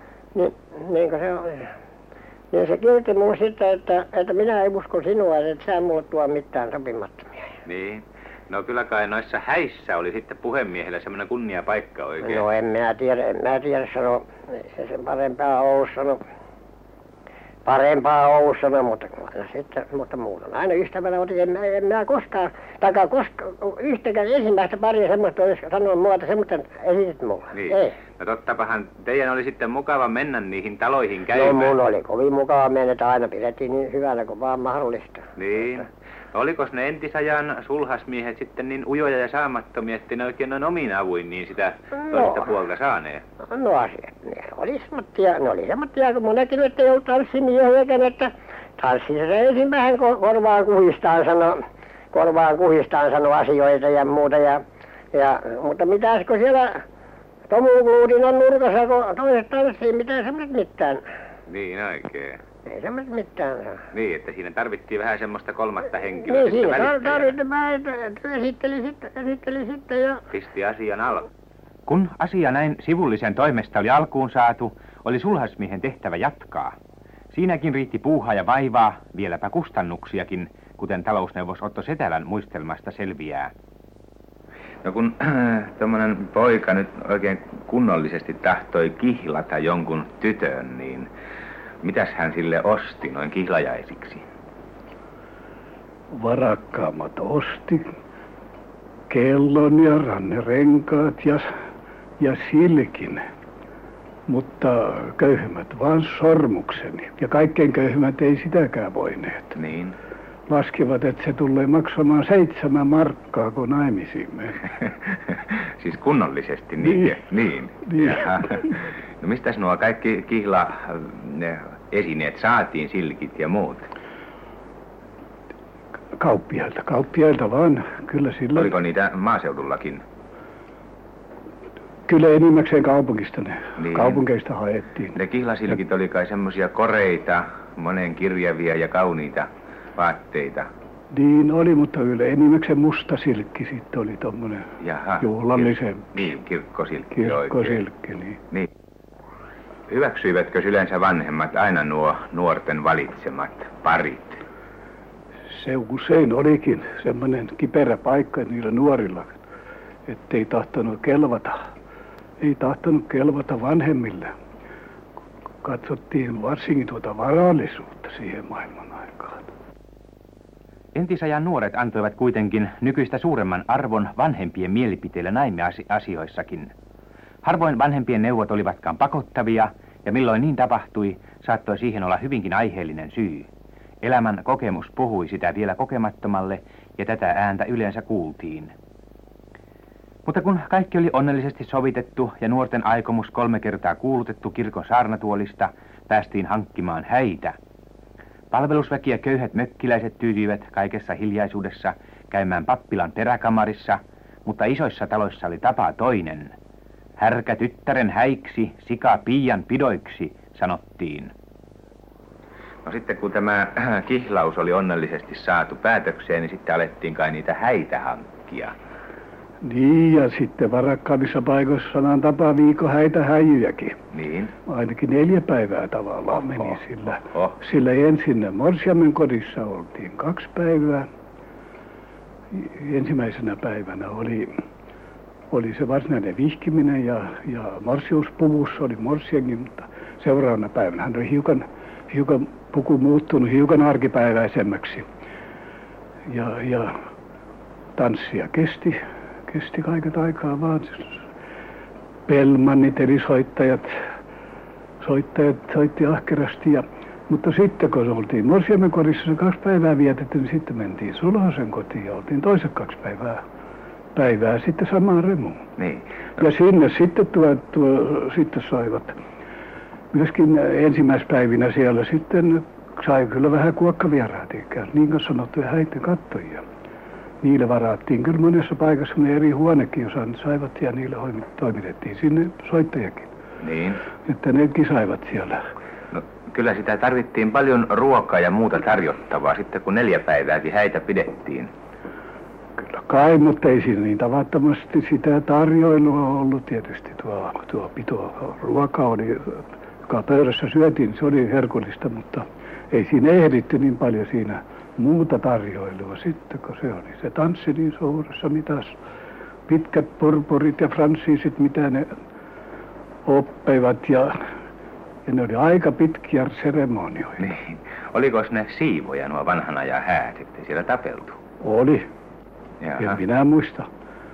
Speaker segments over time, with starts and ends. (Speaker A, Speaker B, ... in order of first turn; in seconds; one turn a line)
Speaker A: 0.3-1.7
Speaker A: 2.5-7.5
Speaker B: 7.6-12.4
Speaker A: 12.2-16.2
Speaker A: 17.6-27.9
Speaker B: 27.5-31.8
Speaker A: 31.4-35.3
Speaker B: 35.4-43.2
Speaker A: 42.1-42.4
Speaker A: 43.5-51.6
Speaker A: 52.1-54.6
Speaker A: 55.1-56.8
Speaker A: 57.5-61.0
Speaker B: 61.5-62.4
Speaker A: 62.7-63.8
Speaker B: 63.9-67.4
Speaker A: 66.2-70.2
Speaker B: 70.3-71.3
Speaker B: 71.9-76.8
Speaker B: 77.3-83.5
Speaker B: 84.8-91.1
Speaker B: 91.8-94.2
Speaker C: 96.1-97.9
Speaker C: 99.1-101.5
Speaker C: 102.2-103.2
Speaker C: 104.3-109.5
Speaker B: 109.5-110.0
Speaker C: 110.5-114.6
Speaker B: 114.8-123.9
Speaker C: 116.8-117.1
Speaker C: 117.9-118.5
Speaker C: 126.2-128.7
Speaker B: 128.5-130.0
Speaker C: 132.1-135.7
Speaker B: 133.8-134.2
Speaker B: 135.1-140.7
Speaker C: 141.1-144.7
Speaker B: 144.8-147.8
Speaker C: 145.2-146.2
Speaker C: 147.2-148.4
Speaker B: 149.9-154.4
Speaker C: 155.5-159.4
Speaker C: 160.1-161.6
Speaker C: 162.4-164.3
Speaker C: 165.6-169.5
Speaker B: 170.9-176.7
Speaker B: 177.4-183.5
Speaker B: 184.0-188.7
Speaker B: 190.2-197.6
Speaker B: 198.5-206.5
Speaker B: 207.2-211.3
Speaker B: 212.8-218.7
Speaker C: 219.6-223.9
Speaker B: 224.1-224.5
Speaker C: 224.7-231.1
Speaker B: 226.4-227.6
Speaker C: 232.5-234.5
Speaker C: 235.5-245.0
Speaker C: 246.3-246.9
Speaker C: 248.0-251.2
Speaker C: 252.3-253.9
Speaker C: 255.0-263.4
Speaker C: 264.1-265.6
Speaker B: 265.8-266.4
Speaker C: 266.4-269.1
Speaker C: 270.1-276.6
Speaker C: 277.4-283.3
Speaker B: 283.6-284.0
Speaker C: 284.2-285.6
Speaker B: 286.1-291.7
Speaker C: 292.8-309.0
Speaker C: 309.7-312.1
Speaker C: 313.2-314.4
Speaker C: 315.2-317.5
Speaker B: 317.4-321.4
Speaker C: 321.6-322.1
Speaker B: 322.8-323.2
Speaker C: 323.0-323.9